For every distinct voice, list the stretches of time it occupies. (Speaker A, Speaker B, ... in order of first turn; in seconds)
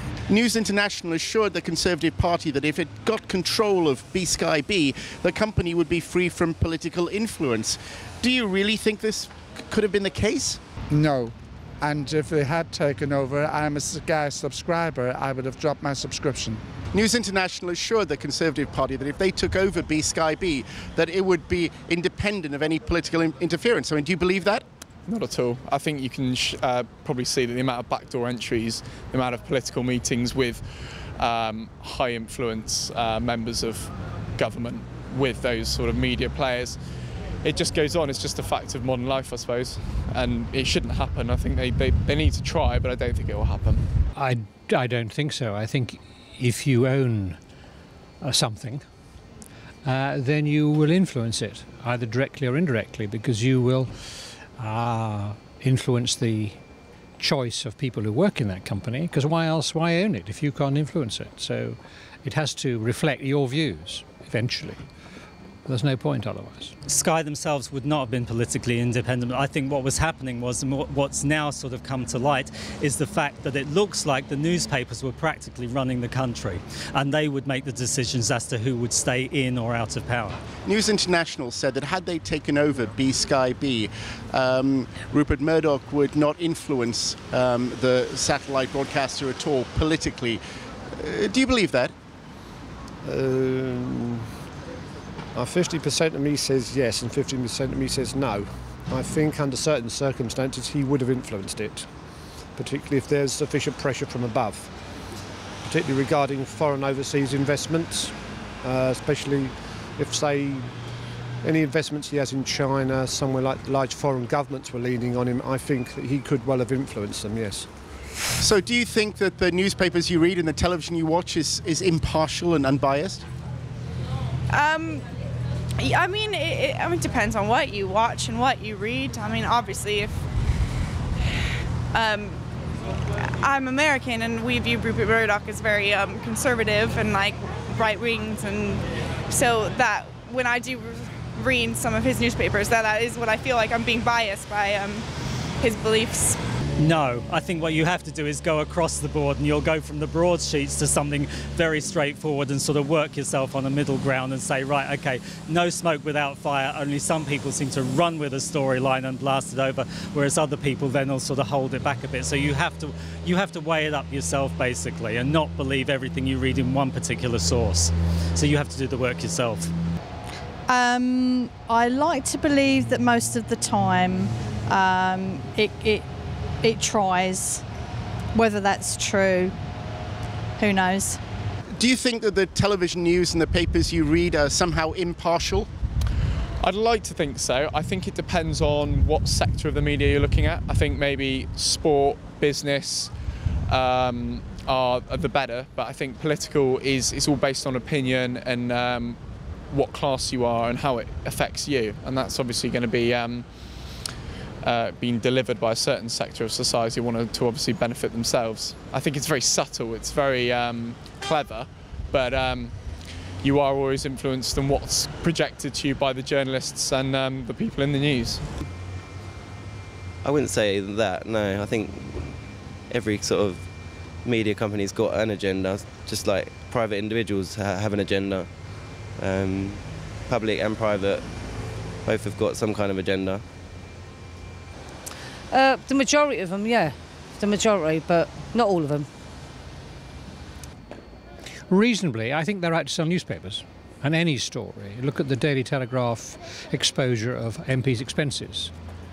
Speaker A: 0.3-10.6, 16.9-24.6, 80.7-90.4, 90.9-91.9, 118.4-123.2, 181.8-185.7
Speaker B: 10.9-16.6
Speaker C: 25.1-36.8, 37.4-43.9, 186.6-193.1, 193.7-199.2, 199.7-204.0, 204.6-218.4
Speaker D: 44.1-47.4, 48.2-48.8, 49.8-56.6, 57.2-64.9, 65.7-66.7, 241.7-248.7
Speaker E: 66.9-80.4, 146.8-169.7
Speaker F: 93.0-94.3, 95.3-104.8, 105.6-117.7
Speaker G: 124.5-125.1, 125.8-130.2, 131.9-132.4, 133.4-145.1, 145.6-146.4
Speaker H: 170.7-176.1, 176.6-177.6, 178.3-179.6, 180.6-181.2
Speaker I: 220.2-231.4, 232.0-233.4
Speaker J: 235.5-239.1